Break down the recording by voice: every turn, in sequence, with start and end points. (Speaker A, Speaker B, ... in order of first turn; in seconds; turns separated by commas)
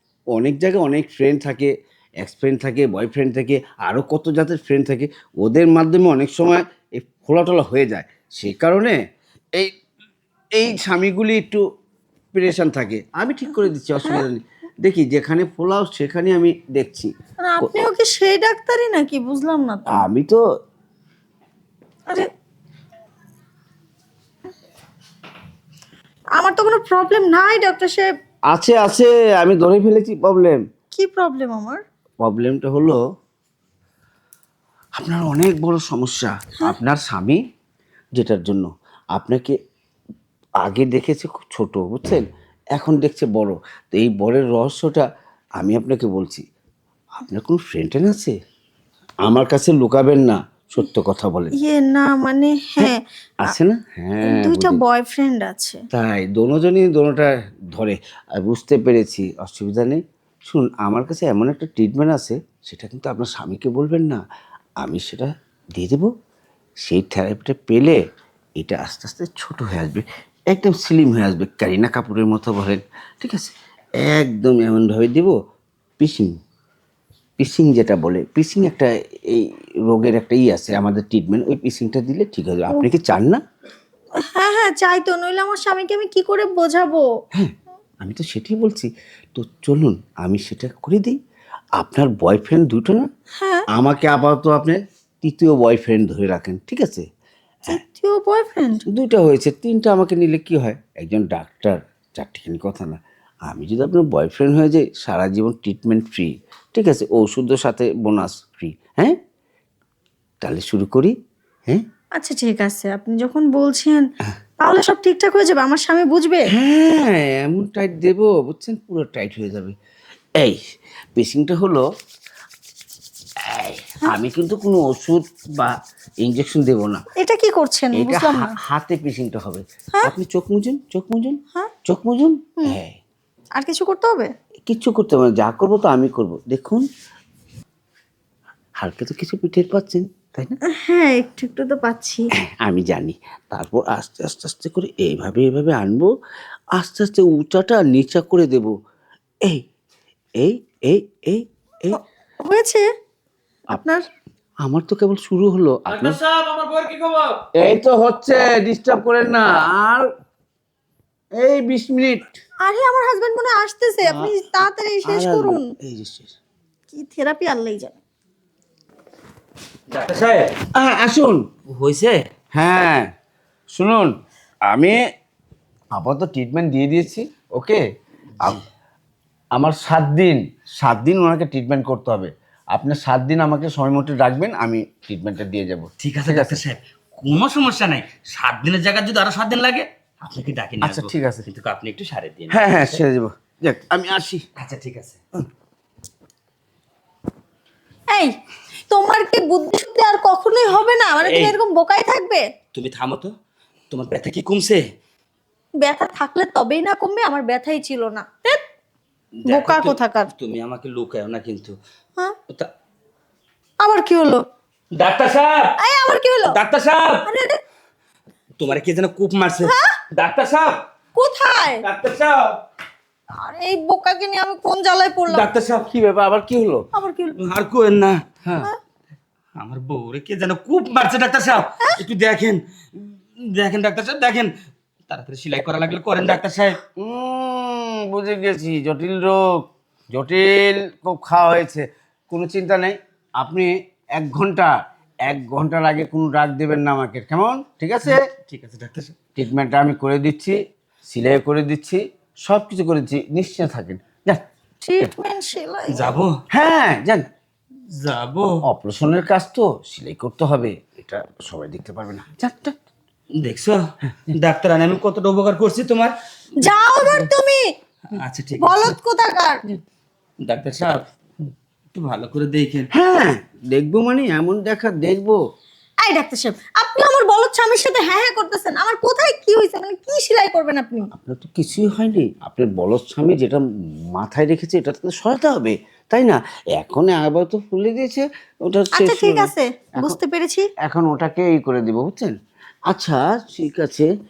Speaker A: 0.3-8.9, Speaker A: 10.5-11.6, Speaker A: 12.3-17.7, Speaker B: 17.4-20.0, Speaker A: 19.9-20.4, Speaker B: 26.4-28.1, Speaker A: 28.5-30.6, Speaker B: 30.9-31.8, Speaker A: 32.2-33.0, Speaker A: 35.0-37.4, Speaker A: 38.1-39.6, Speaker A: 40.6-42.2, Speaker A: 42.8-45.1, Speaker A: 45.6-46.4, Speaker A: 47.2-48.4, Speaker A: 49.2-51.5, Speaker B: 51.6-53.5, Speaker A: 53.4-54.8, Speaker B: 54.2-55.8, Speaker A: 55.9-64.2, Speaker A: 64.8-66.1, Speaker A: 66.8-68.0, Speaker A: 68.6-75.3, Speaker A: 76.0-76.3, Speaker A: 77.4-83.4, Speaker B: 84.3-87.0, Speaker A: 87.3-91.2, Speaker A: 91.8-93.1, Speaker B: 93.4-93.7, Speaker A: 93.7-97.0, Speaker B: 97.7-98.8, Speaker A: 98.9-109.2, Speaker A: 110.4-111.1, Speaker B: 112.2-114.0, Speaker B: 114.6-116.5, Speaker A: 116.5-119.7, Speaker A: 121.2-121.8, Speaker A: 123.5-127.0, Speaker B: 127.2-128.5, Speaker A: 127.9-133.0, Speaker B: 133.6-134.3, Speaker A: 134.7-136.8, Speaker A: 138.8-140.6, Speaker B: 140.7-142.3, Speaker A: 142.4-146.1, Speaker A: 146.8-148.7, Speaker A: 150.4-152.0, Speaker B: 152.4-152.8, Speaker A: 154.6-156.2, Speaker A: 157.6-160.1, Speaker A: 161.4-162.2, Speaker B: 162.6-165.7, Speaker A: 164.1-164.3, Speaker A: 165.0-166.3, Speaker B: 166.9-168.0, Speaker C: 169.9-170.6, Speaker A: 170.7-171.4, Speaker C: 171.7-172.2, Speaker A: 172.5-173.1, Speaker A: 173.7-174.1, Speaker A: 174.7-175.0, Speaker A: 175.9-177.8, Speaker A: 179.5-186.6, Speaker C: 186.0-193.0, Speaker A: 190.8-191.4, Speaker A: 192.5-194.4, Speaker C: 194.6-195.2, Speaker B: 198.9-202.4, Speaker C: 201.2-201.6, Speaker C: 202.7-203.3, Speaker C: 203.9-204.8, Speaker B: 205.8-208.6, Speaker C: 209.4-211.8, Speaker B: 209.4-210.3, Speaker B: 213.8-214.4, Speaker C: 214.9-215.7, Speaker B: 215.8-216.6, Speaker C: 216.4-217.2, Speaker B: 217.2-217.6, Speaker C: 218.6-220.8, Speaker B: 219.6-220.0, Speaker B: 221.2-221.8, Speaker C: 221.8-222.6, Speaker B: 223.4-225.5, Speaker C: 225.3-225.9, Speaker A: 225.9-226.8, Speaker B: 226.9-227.4, Speaker C: 227.4-228.2, Speaker C: 229.6-234.5, Speaker C: 235.1-236.8, Speaker A: 237.0-239.5, Speaker A: 240.1-244.7, Speaker A: 245.2-248.2, Speaker C: 248.0-249.2, Speaker A: 249.3-254.4, Speaker B: 254.8-256.1, Speaker C: 255.9-256.4, Speaker A: 256.5-257.3, Speaker C: 257.9-258.6, Speaker A: 258.6-262.8, Speaker C: 263.4-266.1, Speaker B: 266.6-267.7, Speaker C: 268.1-269.0, Speaker B: 268.6-269.6, Speaker C: 270.4-272.9, Speaker A: 272.9-275.4, Speaker B: 276.0-281.1, Speaker A: 281.1-290.2, Speaker B: 288.9-290.7, Speaker A: 290.8-292.3, Speaker A: 292.9-294.1